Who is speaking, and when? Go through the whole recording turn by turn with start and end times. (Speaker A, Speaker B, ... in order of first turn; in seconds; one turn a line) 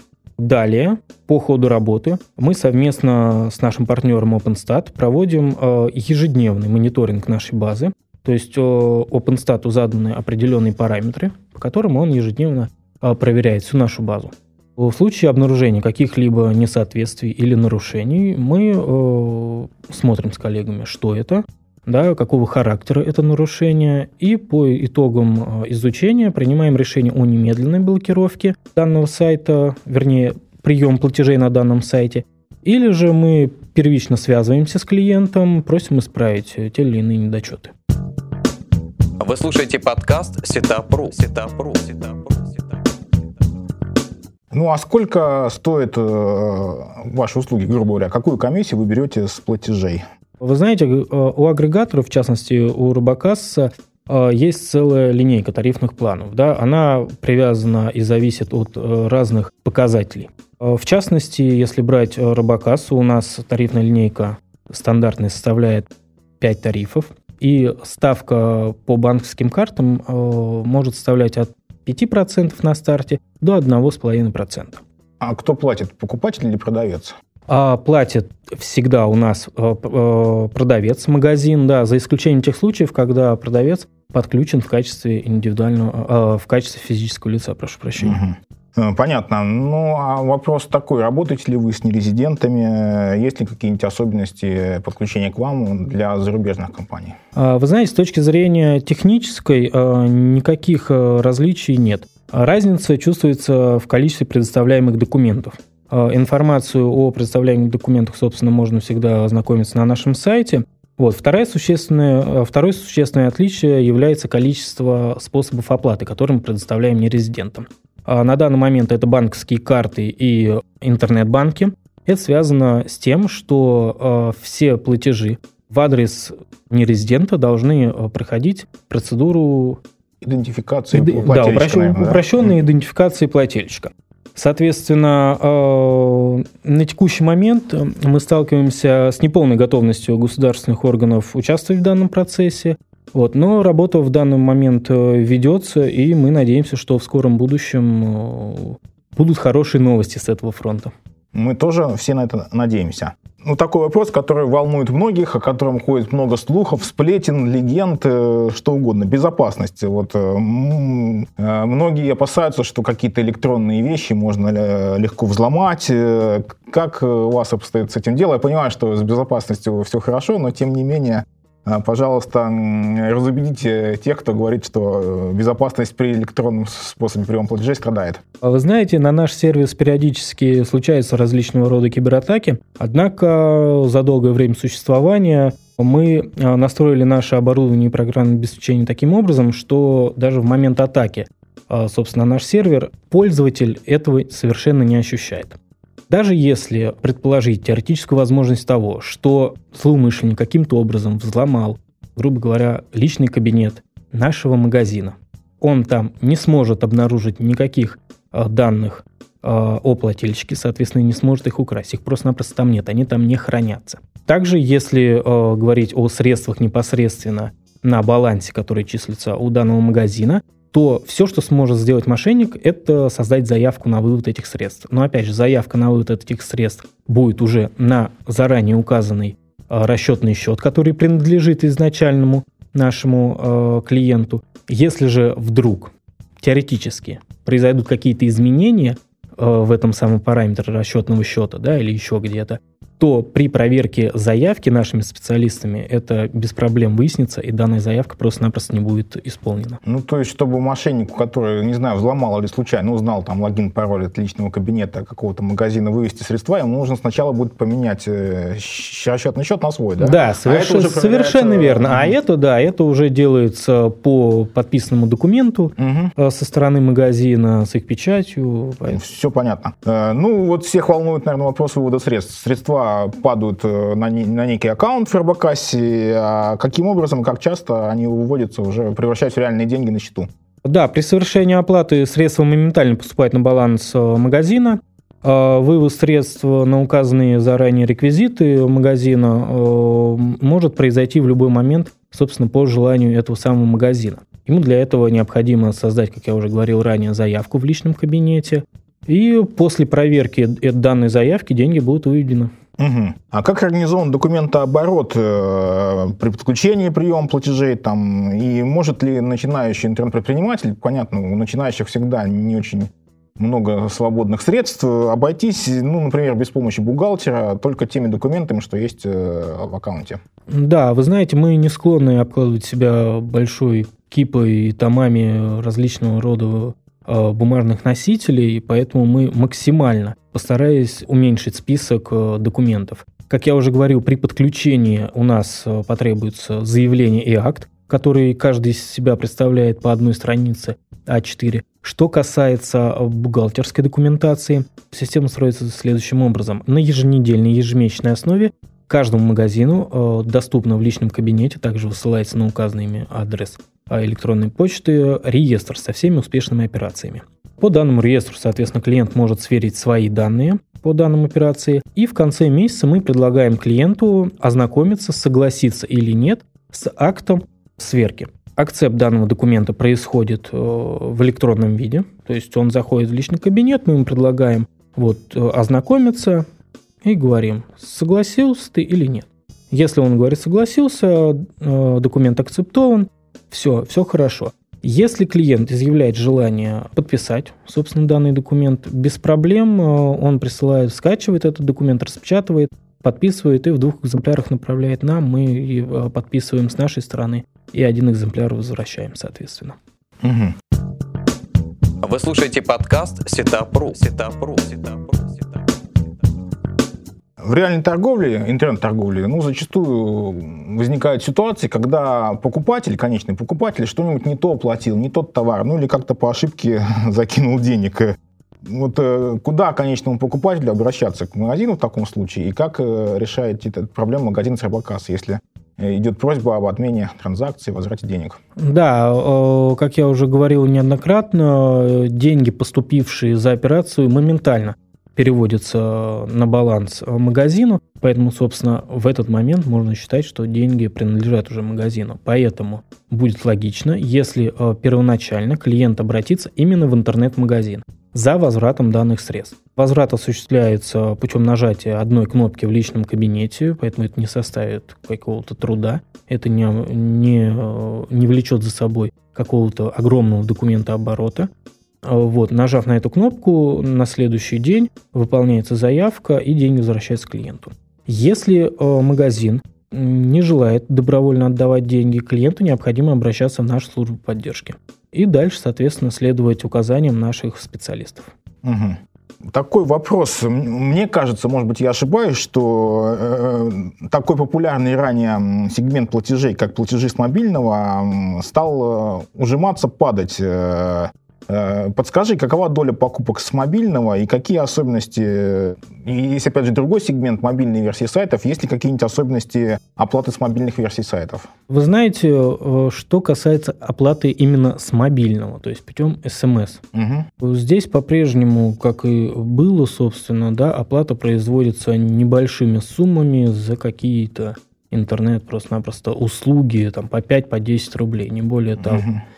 Speaker A: 0.4-37.7
Speaker B: 39.2-42.9
Speaker C: 44.5-50.0
Speaker A: 50.4-65.9
Speaker A: 66.4-74.8
Speaker C: 75.2-77.1
Speaker A: 77.5-88.2
Speaker C: 88.0-97.2
Speaker A: 97.4-129.8
Speaker C: 130.2-132.6
Speaker A: 130.9-150.9
Speaker C: 151.3-178.2
Speaker A: 178.4-195.6
Speaker A: 196.1-249.8
Speaker C: 249.8-262.2
Speaker A: 260.0-269.0
Speaker C: 265.8-266.1
Speaker C: 268.9-280.3
Speaker A: 280.6-302.5
Speaker C: 302.8-320.2
Speaker A: 320.5-376.5
Speaker A: 377.0-399.8
Speaker C: 400.2-400.6
Speaker B: 402.0-405.8
Speaker C: 407.4-428.4
Speaker A: 428.6-461.5
Speaker A: 462.0-478.3
Speaker C: 478.6-479.0
Speaker C: 479.5-501.5
Speaker A: 501.7-506.8
Speaker C: 506.9-507.3
Speaker A: 507.4-519.1
Speaker C: 518.8-519.2